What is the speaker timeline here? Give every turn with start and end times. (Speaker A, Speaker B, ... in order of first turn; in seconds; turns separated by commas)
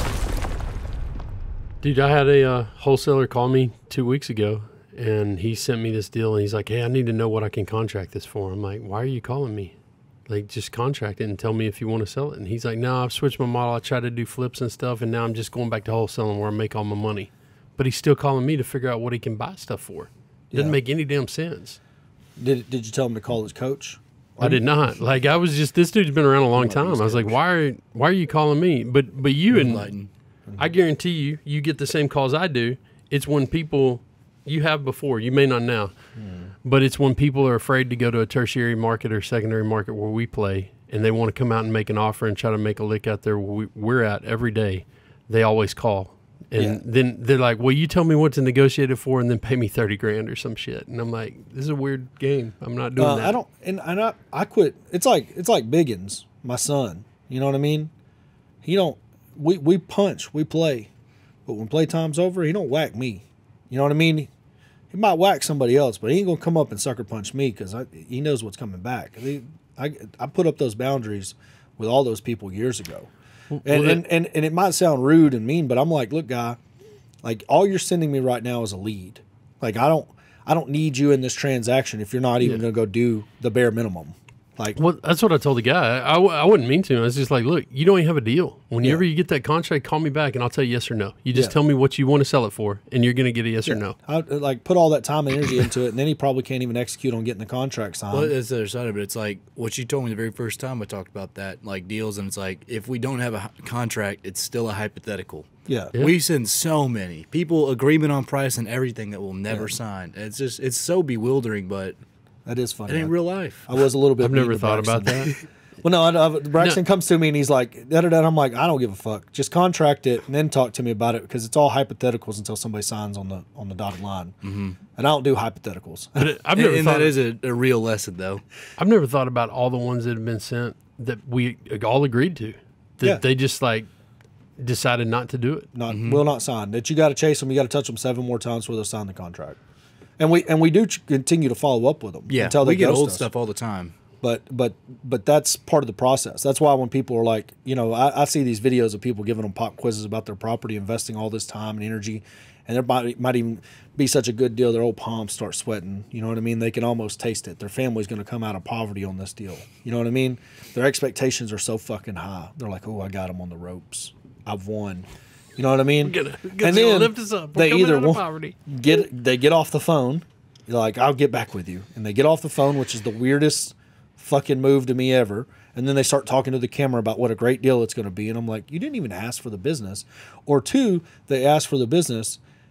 Speaker A: 1.8-9.8, Speaker A: 10.3-21.8, Speaker B: 20.5-20.8, Speaker B: 22.4-24.6, Speaker A: 24.4-29.9, Speaker B: 26.6-27.4, Speaker C: 29.5-30.1, Speaker A: 30.6-35.9, Speaker B: 36.2-36.5, Speaker A: 36.6-53.4, Speaker B: 46.6-46.8, Speaker B: 53.0-57.9, Speaker B: 58.6-60.9, Speaker B: 61.5-64.3, Speaker B: 64.9-73.1, Speaker A: 73.5-74.0, Speaker B: 73.7-76.6, Speaker B: 77.2-84.8, Speaker A: 84.8-94.0, Speaker B: 93.6-98.3, Speaker C: 98.1-105.5, Speaker B: 105.7-106.0, Speaker C: 106.0-112.0, Speaker B: 112.5-124.4, Speaker C: 112.9-113.7, Speaker A: 114.2-115.4, Speaker C: 124.4-124.8, Speaker B: 125.0-126.3, Speaker A: 126.2-127.2, Speaker C: 126.5-128.4, Speaker A: 128.8-133.9, Speaker A: 134.6-135.7, Speaker B: 135.8-139.6, Speaker C: 135.9-136.2, Speaker B: 140.2-143.3, Speaker C: 142.3-143.9, Speaker B: 144.2-182.4, Speaker A: 166.0-168.6